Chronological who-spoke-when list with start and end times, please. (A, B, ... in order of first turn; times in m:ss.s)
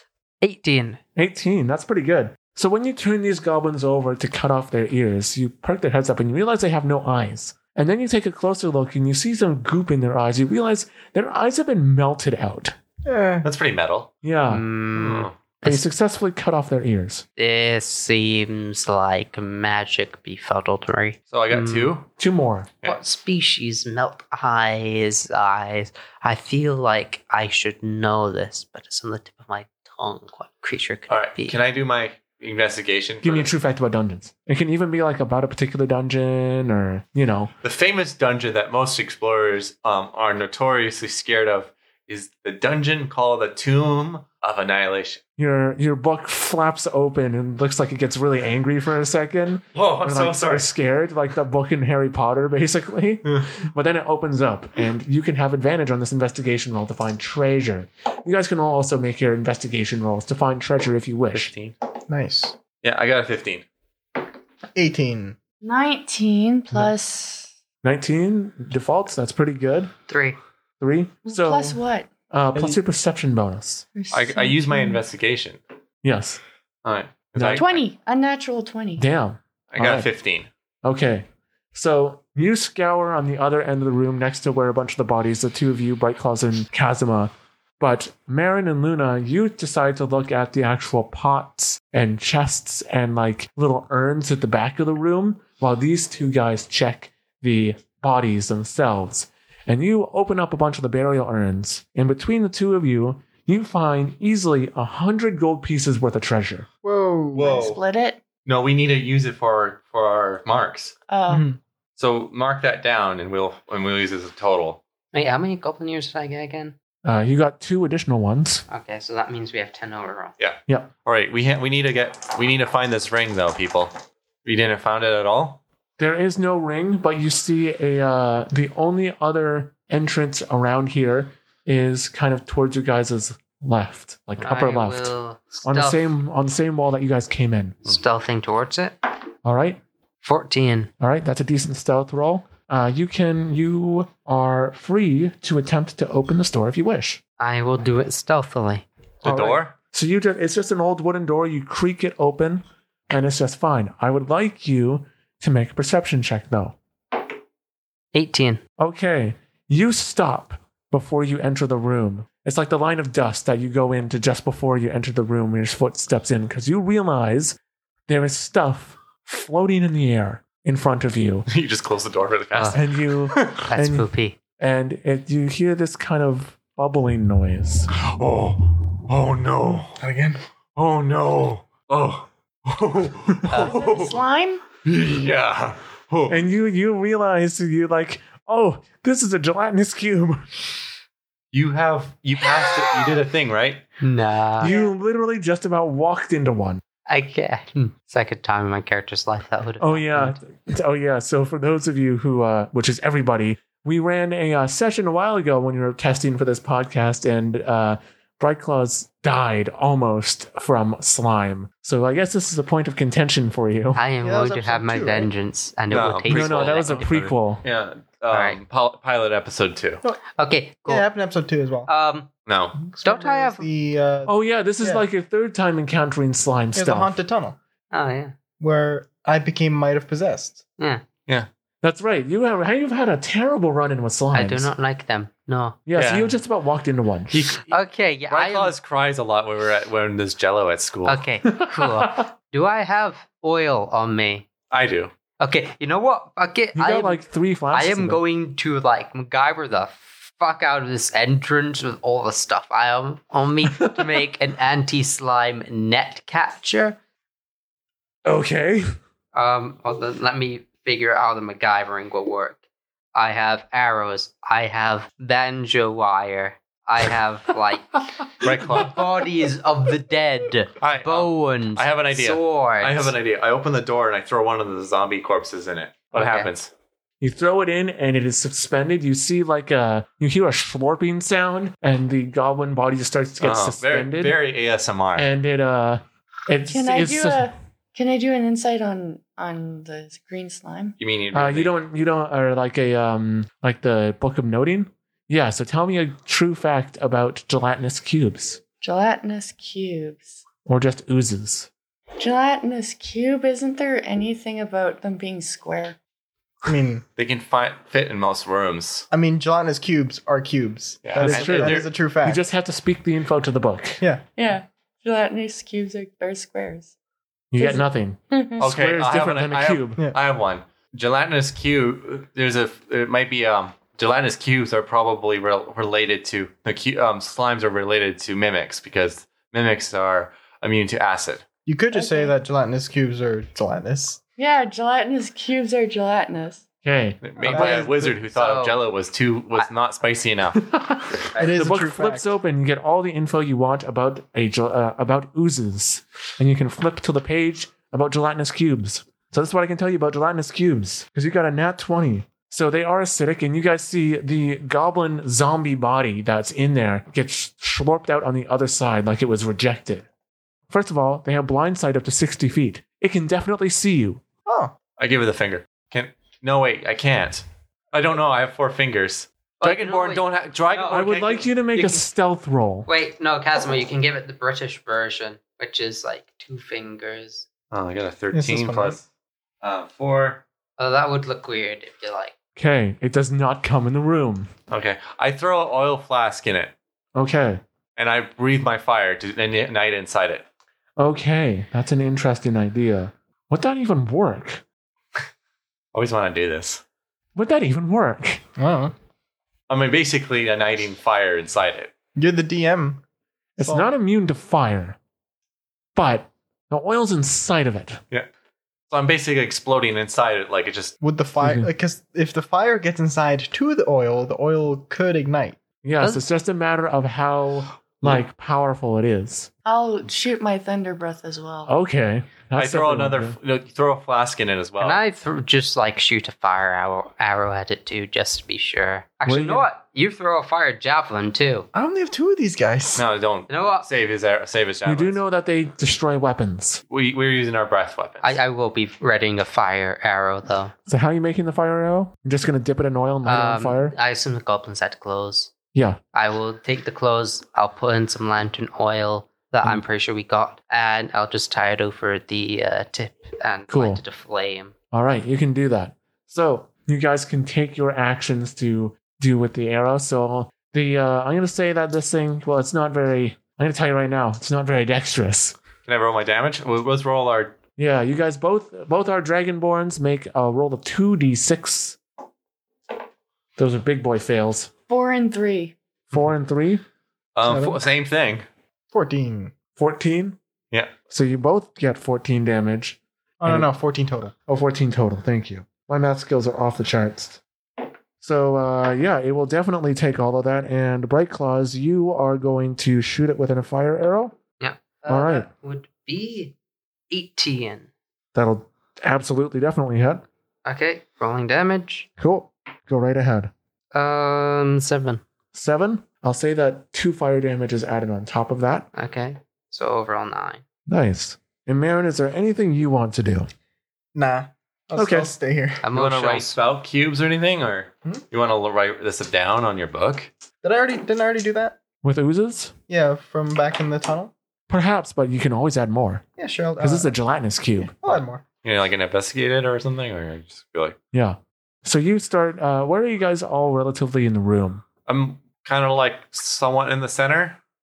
0:00.4-0:01.0 A
0:01.2-0:12.8 B
0:13.0-0:13.5 C
0:13.4-0:14.1 D
0:14.2-0:14.6 B
0:14.5-0:15.9 A
0:15.0-0:15.4 D
0:15.6-0:17.2 B
0:17.4-0:22.0 A
0:21.3-0:22.1 D
0:22.2-0:22.7 B
0:22.8-0:31.6 A
0:31.1-0:33.5 D
0:33.2-0:37.5 B
0:37.6-0:45.2 D
0:45.4-1:01.5 B
0:49.7-0:50.7 D
1:01.3-1:01.7 D
1:02.1-1:02.6 C
1:02.8-1:03.7 D
1:04.8-1:05.4 C
1:05.6-1:07.5 E
1:07.8-1:09.9 B
1:10.1-1:10.4 A
1:10.8-1:13.9 B
1:11.2-1:12.1 E
1:12.5-1:12.8 C
1:14.0-1:15.0 E
1:14.1-1:15.6 D
1:16.0-1:16.4 B
1:16.8-1:17.8 D
1:17.4-1:17.7 B
1:17.6-1:19.1 E
1:19.0-1:20.1 B
1:19.7-1:20.5 D
1:20.8-1:46.7 B
1:46.8-1:47.8 C
1:47.4-1:47.8 D
1:47.4-1:48.2 E
1:48.5-1:51.0 D
1:51.1-1:51.5 E
1:51.3-1:51.6 C
1:52.0-1:54.8 D
1:55.1-1:56.8 A
1:57.0-1:58.6 B
1:58.7-2:00.4 A
2:00.4-2:05.6 D
2:06.0-2:15.1 B
2:14.4-2:16.0 A
2:15.6-2:17.9 B
2:17.9-2:19.0 A
2:19.4-2:19.8 B
2:20.2-2:20.9 A
2:21.0-2:27.2 B
2:27.4-2:28.8 A
2:29.2-2:29.8 D
2:29.2-2:36.8 B
2:38.1-2:38.6 A
2:38.8-2:51.5 B
2:51.5-2:53.6 D
2:52.7-2:57.9 B
2:53.4-2:54.4 A
2:57.9-3:00.0 D
3:00.0-3:00.4 C
3:00.8-3:04.2 D
3:03.5-3:04.0 A
3:03.5-3:04.6 E
3:04.8-3:06.4 D
3:06.3-3:10.7 B
3:11.5-3:13.8 D
3:14.0-3:14.8 A
3:14.6-3:16.8 B
3:14.6-3:14.9 E
3:17.1-3:20.4 A
3:19.8-3:34.0 B
3:34.0-3:37.1 A
3:34.2-3:35.3 C
3:35.9-3:40.0 D
3:36.3-3:37.6 B
3:38.3-3:38.6 A
3:40.4-3:41.1 A
3:40.9-3:41.9 C
3:41.9-3:42.3 A
3:42.5-3:42.8 D
3:42.8-3:45.0 C
3:43.0-3:43.7 A
3:44.3-3:47.2 B
3:46.8-3:47.6 C
3:47.9-3:48.4 A
3:48.6-3:50.6 C
3:51.8-3:54.7 B
3:54.3-3:55.8 A
3:55.9-3:57.5 B
3:55.9-3:56.4 D
3:57.3-3:57.8 D
3:57.7-3:58.8 A
3:58.3-4:01.2 D
4:01.1-4:04.5 A
4:01.5-4:02.3 B
4:04.7-4:05.1 D
4:05.4-4:17.0 A
4:06.8-4:08.2 B
4:13.6-4:14.2 B
4:18.2-4:19.0 B
4:19.3-4:22.6 A
4:23.1-4:33.2 A
4:28.4-4:29.0 D
4:30.8-4:36.7 D
4:36.1-4:36.5 A
4:37.2-4:44.4 B
4:43.4-4:45.3 D
4:45.2-4:47.5 B
4:46.7-4:51.0 E
4:51.0-4:51.8 D
4:51.3-4:58.6 B
4:58.8-5:00.4 E
5:00.6-5:01.7 B
5:02.2-5:06.0 E
5:06.6-5:07.0 C
5:07.2-5:09.1 D
5:09.1-5:12.4 C
5:11.0-5:11.9 D
5:11.2-5:14.0 B
5:14.4-5:16.9 E
5:17.5-5:20.0 B
5:17.6-5:18.7 E
5:18.6-5:31.4 D
5:31.7-5:34.2 C
5:31.9-5:32.4 E
5:34.4-5:36.7 E
5:36.8-5:37.9 B
5:37.2-5:40.7 D
5:37.4-5:38.1 C
5:38.3-5:38.8 A
5:40.6-6:00.1 B
5:41.4-5:42.4 C
6:00.7-6:04.2 B
6:04.5-6:04.8 C
6:05.0-6:12.0 D
6:09.6-6:11.0 A
6:10.9-6:12.9 B
6:12.9-6:17.5 A
6:17.7-6:19.0 D
6:18.3-6:19.0 C
6:19.6-6:20.4 D
6:20.8-6:22.4 A
6:22.6-6:24.5 B
6:24.7-6:26.7 D
6:27.2-6:27.6 B
6:28.0-6:30.4 D
6:31.0-6:34.6 B
6:35.9-6:36.8 D
6:37.4-6:38.4 B
6:38.6-6:38.9 C
6:39.7-6:41.9 D
6:42.2-6:43.0 C
6:43.6-6:45.0 B
6:43.6-6:43.9 C
6:46.0-6:48.0 B
6:48.9-6:50.9 D
6:51.0-6:55.6 C
6:51.4-6:51.7 B
6:55.8-6:59.5 B
6:59.6-7:01.7 E
7:01.7-7:03.4 B
7:02.6-7:05.0 D
7:04.8-7:11.7 A
7:09.3-7:09.7 B
7:11.7-7:13.0 C
7:13.0-7:15.2 D
7:13.5-7:13.9 A
7:14.8-7:16.8 B
7:16.9-7:18.4 D
7:18.2-7:20.7 A
7:20.9-7:24.0 B
7:23.2-7:25.5 A
7:25.7-7:26.0 B
7:26.1-7:34.8 A
7:33.7-7:34.0 B
7:34.9-7:45.6 B
7:45.9-7:47.6 D
7:47.8-7:52.0 B
7:53.6-7:54.7 B
7:54.9-7:55.8 E
7:56.1-7:56.8 B
7:57.4-7:58.5 D
7:57.4-7:57.8 C
7:58.9-7:59.6 C
7:59.7-8:00.4 B
8:01.1-8:03.7 B
8:03.4-8:04.4 C
8:04.4-8:07.4 B
8:08.2-8:14.4 B
8:14.6-8:16.6 A
8:15.1-8:15.5 B
8:17.1-8:17.9 A
8:18.3-8:20.2 B
8:20.6-8:22.1 A
8:22.2-8:23.5 B
8:23.9-8:25.2 A
8:25.5-8:28.9 B
8:29.0-8:30.6 A
8:30.9-8:33.5 B
8:34.2-8:35.8 C
8:35.0-8:35.3 B
8:35.8-8:36.6 A
8:35.9-8:40.3 D
8:40.6-8:41.8 C
8:42.0-8:42.7 B
8:42.9-8:44.3 C
8:44.7-8:46.2 B
8:46.4-8:47.2 C
8:46.8-8:48.2 B
8:47.8-8:48.4 C
8:48.6-8:51.0 D
8:51.1-8:54.8 B
8:55.1-8:57.6 D